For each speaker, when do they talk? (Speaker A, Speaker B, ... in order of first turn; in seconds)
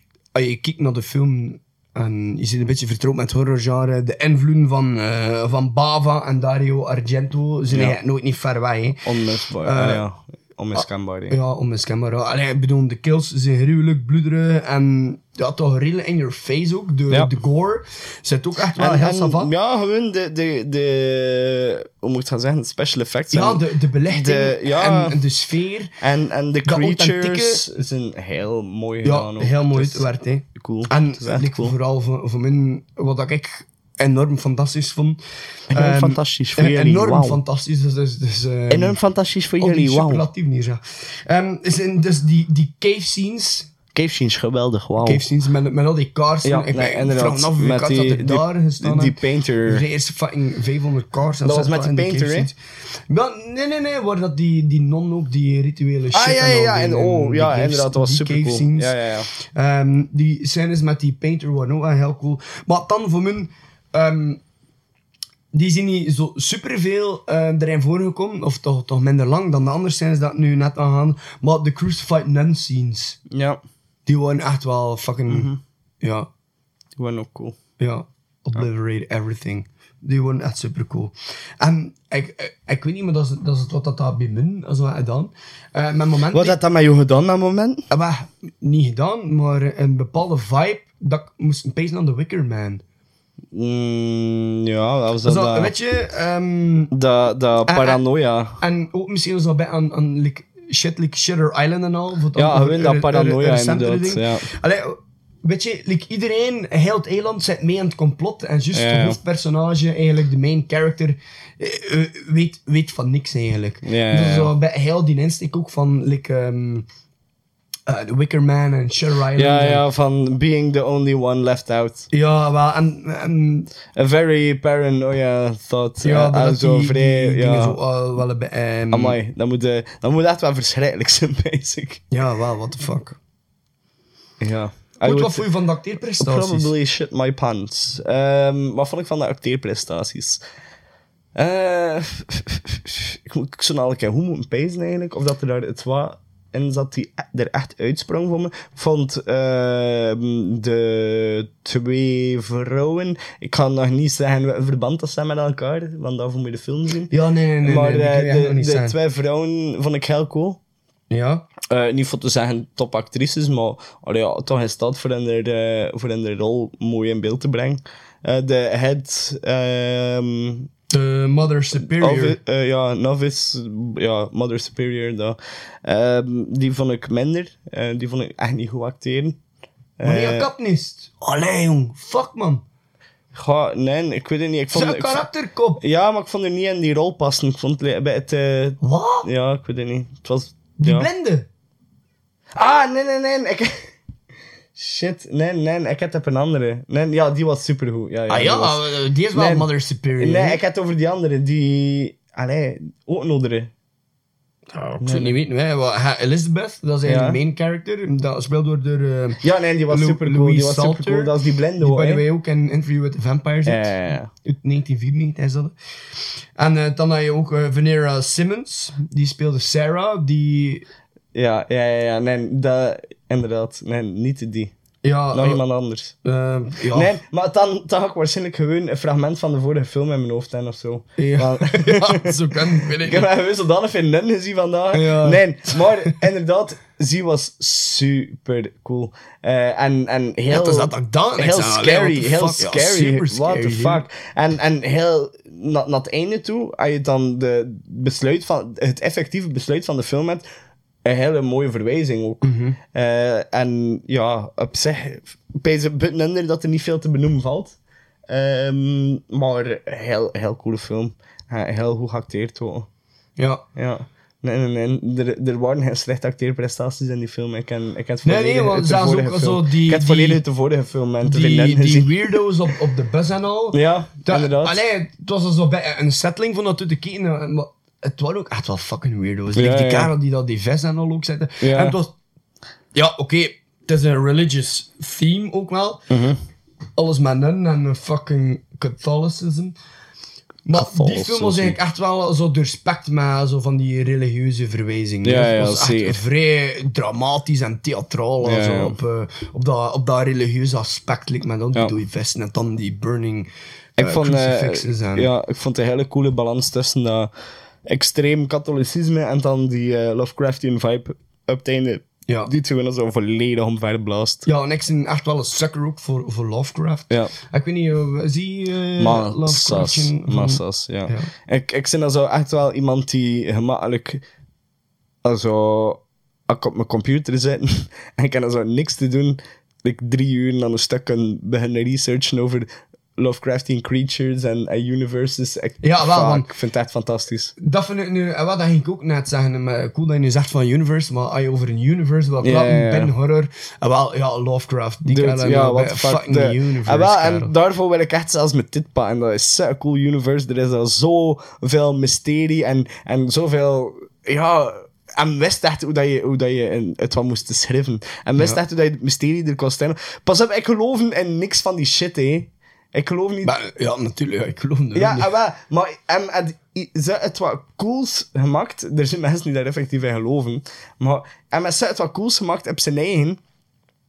Speaker A: 0.3-9.0, 9.6-10.0, 10.8-19.5, 23.3-25.9, 26.6-27.6, 29.0-35.2, 35.7-39.0, 39.6-43.7, 45.0-52.5, 53.1-64.4, 65.5-73.2, 74.0-75.5, 76.0-76.3, 77.8-86.6, 87.9-92.8, 95.2-96.9, 97.7-98.0, 98.6-116.8, 117.9-119.8, 122.1-123.7, 126.0-129.2, 132.1-133.2, 135.0-136.7, 157.1-159.0, 161.1-161.4, 170.9-172.4, 180.0-182.6, 184.7-185.8, 188.8-189.2, 190.8-191.5, 198.3-200.6, 204.7-215.7, 216.6-220.8, 225.0-225.6, 226.2-227.1, 231.2-233.2, 234.9-236.1, 240.5-244.0, 252.4-252.8, 263.4-263.6, 268.2-270.4, 271.2-282.1, 282.9-286.0, 287.0-289.7, 290.6-305.3, 314.4-321.3, 335.8-336.5, 337.6-347.5, 363.4-365.3
Speaker B: 7.7-8.0, 9.0-11.3, 18.8-25.2, 26.0-31.7, 35.7-37.4, 38.7-40.2, 43.9-45.2, 46.4-49.8, 51.4-52.5, 56.1-59.3, 73.3-73.6, 75.3-75.6, 77.0-77.6, 86.3-87.9, 93.5-95.7, 96.9-98.6, 102.3-104.5, 108.7-109.2, 113.8-114.5, 119.3-122.1, 123.9-127.8, 128.9-132.0, 134.4-135.5, 136.2-140.4, 141.3-160.6, 161.7-170.7, 171.8-179.4, 180.0-180.5, 183.3-185.2, 185.8-191.1, 192.5-193.9, 194.7-203.7, 205.0-205.3, 207.0-207.4, 209.4-212.2, 213.6-214.3, 221.3-224.7, 225.3-226.1, 226.9-232.3, 233.0-250.4, 251.0-257.8, 258.3-262.9, 263.7-272.4, 273.7-274.9, 279.5-280.1, 281.6-281.9, 286.1-286.4, 290.7-291.8, 295.2-296.2, 298.4-298.9, 304.0-307.3, 307.9-314.4, 319.0-324.2, 325.2-337.5, 342.4-343.1, 345.1-363.5, 364.9-373.4